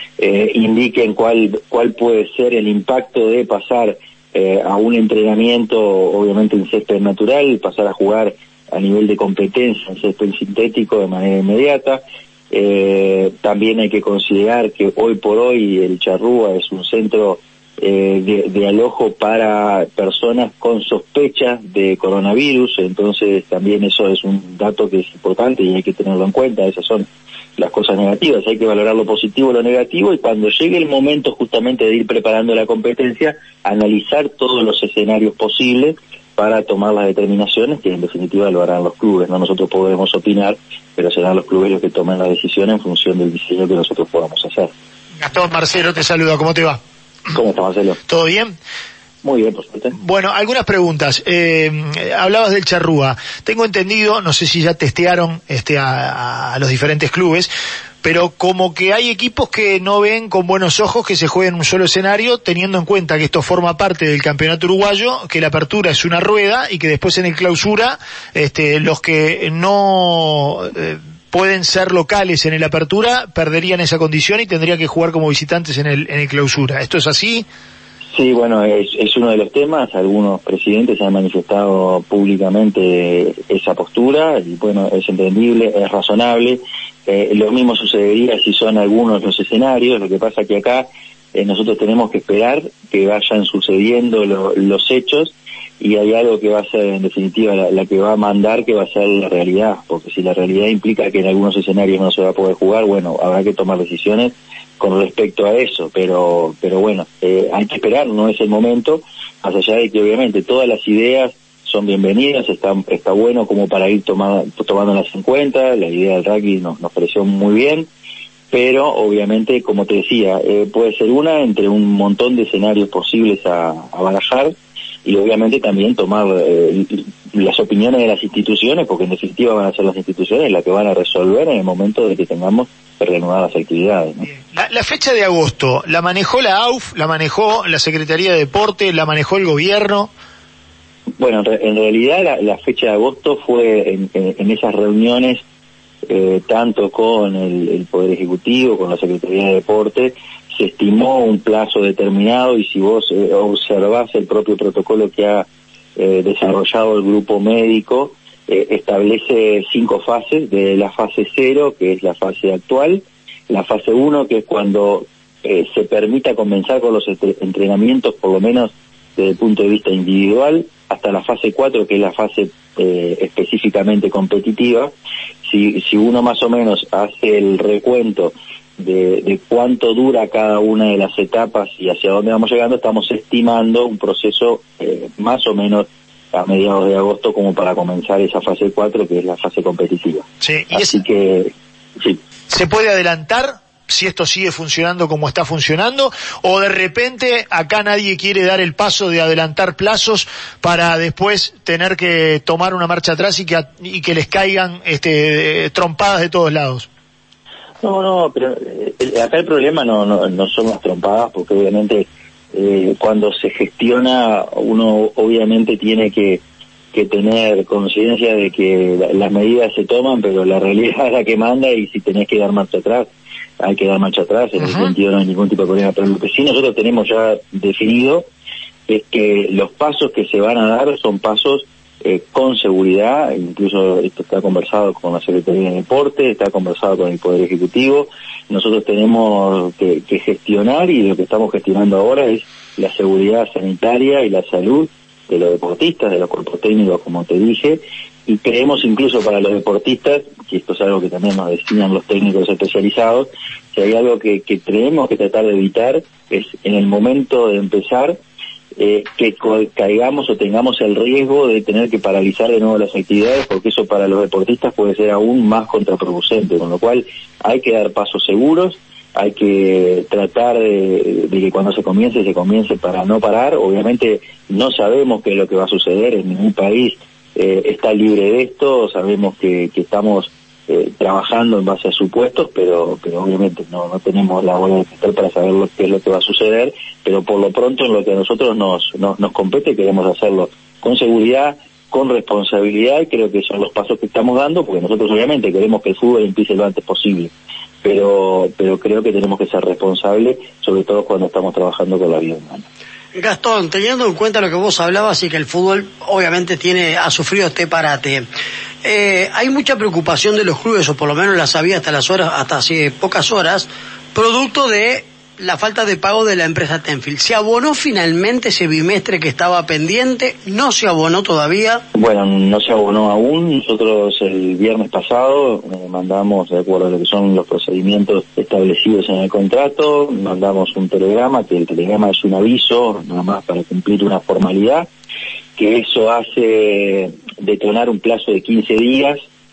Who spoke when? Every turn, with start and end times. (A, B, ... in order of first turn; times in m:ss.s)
0:00.2-0:44.7 A
0:45.2-0:46.8 B
0:47.3-0:48.0 A
0:48.1-0:48.5 B
0:49.2-0:49.9 A
0:49.9-0:57.5 B
0:58.0-1:17.4 B
1:18.1-1:57.9 A
1:58.5-2:14.2 A
2:14.2-2:20.1 B
2:21.2-2:25.4 A
2:26.0-2:54.9 A
2:55.4-3:12.2 A
3:10.4-3:11.0 B
3:12.5-3:26.9 B
3:27.8-3:36.4 A
3:36.9-3:43.1 A
3:43.6-3:48.3 A
3:48.9-4:18.2 A
4:18.8-4:57.3 A
4:57.8-5:02.6 A
5:03.1-5:08.2 C
5:08.8-5:21.8 C
5:21.9-5:34.9 A
5:35.6-5:39.2 A